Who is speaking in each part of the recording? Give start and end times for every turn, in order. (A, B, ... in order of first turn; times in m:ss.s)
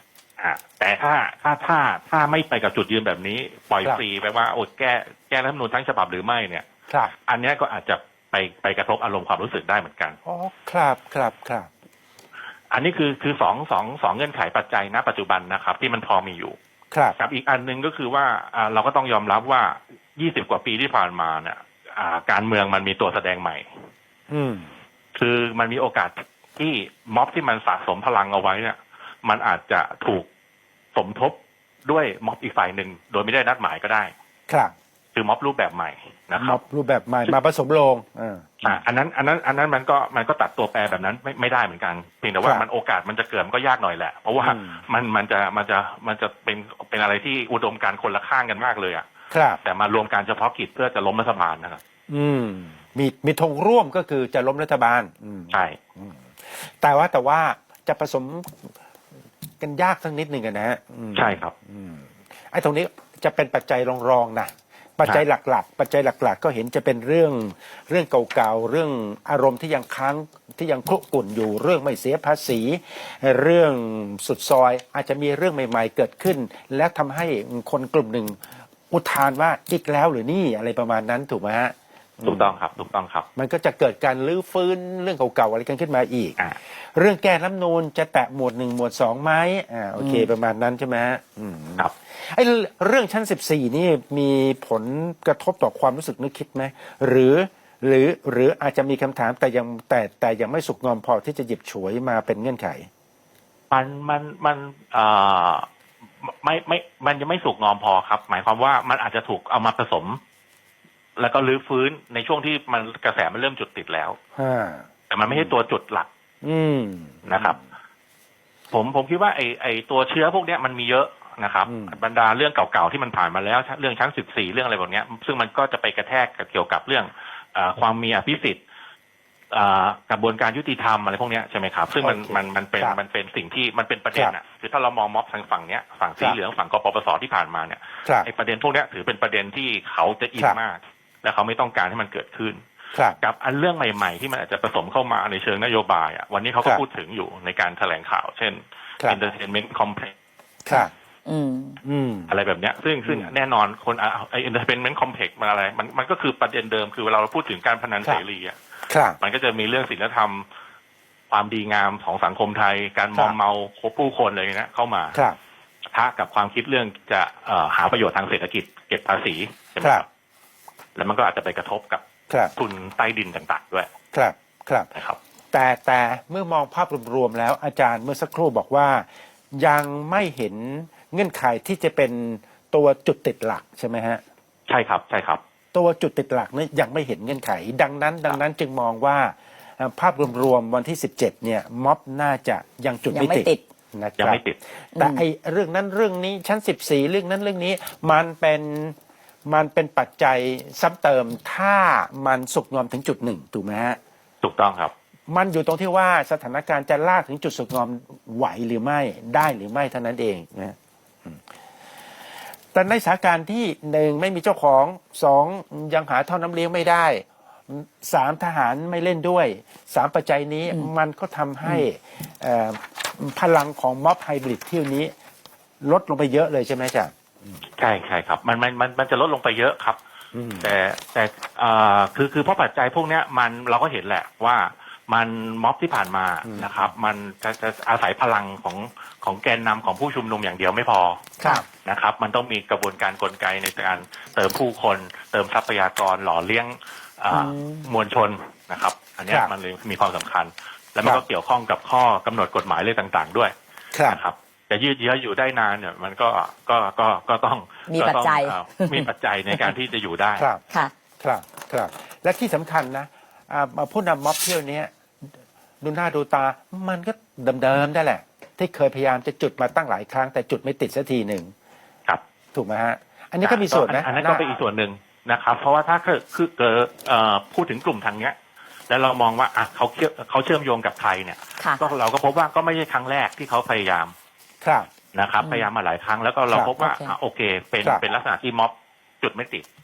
0:00.4-0:06.6 A
0:06.9-0:07.1 B
0:07.2-0:10.2 A
0:10.2-0:11.7 B
0:12.7-0:16.6 A
0:16.9-0:17.2 B
0:17.2-0:23.6 A
0:24.3-0:24.7 B
0:25.1-0:30.2 A
0:30.9-0:34.1 A
0:34.5-0:34.7 B
0:35.1-0:36.6 A
0:36.4-0:38.7 B
0:38.6-0:49.0 A
0:44.4-0:44.8 B
0:49.3-0:49.6 B
0:49.6-0:51.8 A
0:52.1-0:58.7 B
0:55.5-0:55.8 A
0:59.6-1:18.4 B
1:01.1-1:01.5 A
1:18.9-1:22.6 B
1:22.2-1:23.2 A
1:23.4-1:42.9 B
1:30.0-1:30.3 C
1:43.7-1:45.6 A
1:46.2-1:50.2 A
1:51.2-1:54.2 A
1:54.4-1:55.5 B
1:55.1-1:56.1 A
1:56.4-1:57.6 B
1:57.2-1:57.6 A
1:58.7-2:08.6 A
2:01.6-2:02.0 B
2:09.5-2:22.6 A
2:12.0-2:13.0 B
2:18.0-2:18.3 B
2:22.9-2:23.2 B
2:23.2-2:30.1 A
2:30.6-2:30.9 B
2:30.7-2:31.8 C
2:31.8-2:32.3 B
2:32.3-2:38.6 A
2:33.0-2:33.3 B
2:38.9-2:39.2 B
2:39.2-2:40.4 A
2:41.3-2:45.2 A
2:45.9-2:50.1 A
2:49.8-2:50.0 B
2:50.9-2:52.0 A
2:52.5-2:53.9 A
2:54.1-2:54.9 B
2:55.5-3:04.2 B
3:04.7-3:05.4 A
3:05.7-3:19.0 B
3:13.1-3:13.6 C
3:14.2-3:14.6 A
3:15.0-3:15.2 C
3:19.5-3:24.0 B
3:24.4-3:24.9 A
3:25.3-3:31.4 B
3:32.7-3:45.1 B
3:45.8-3:47.6 B
3:47.8-3:50.0 A
3:50.3-3:50.7 B
3:50.6-4:13.5 A
3:56.4-3:56.7 B
4:01.4-4:01.6 B
4:07.3-4:07.9 C
4:13.9-4:14.2 B
4:14.0-4:20.4 A
4:17.9-4:19.7 C
4:20.4-4:20.6 B
4:21.2-4:24.9 B
4:25.8-4:31.5 B
4:32.5-4:34.4 B
4:33.4-4:38.3 A
4:38.9-4:44.1 A
4:44.6-4:44.9 B
4:45.1-4:49.6 A
4:45.4-4:45.7 C
4:46.8-4:47.1 C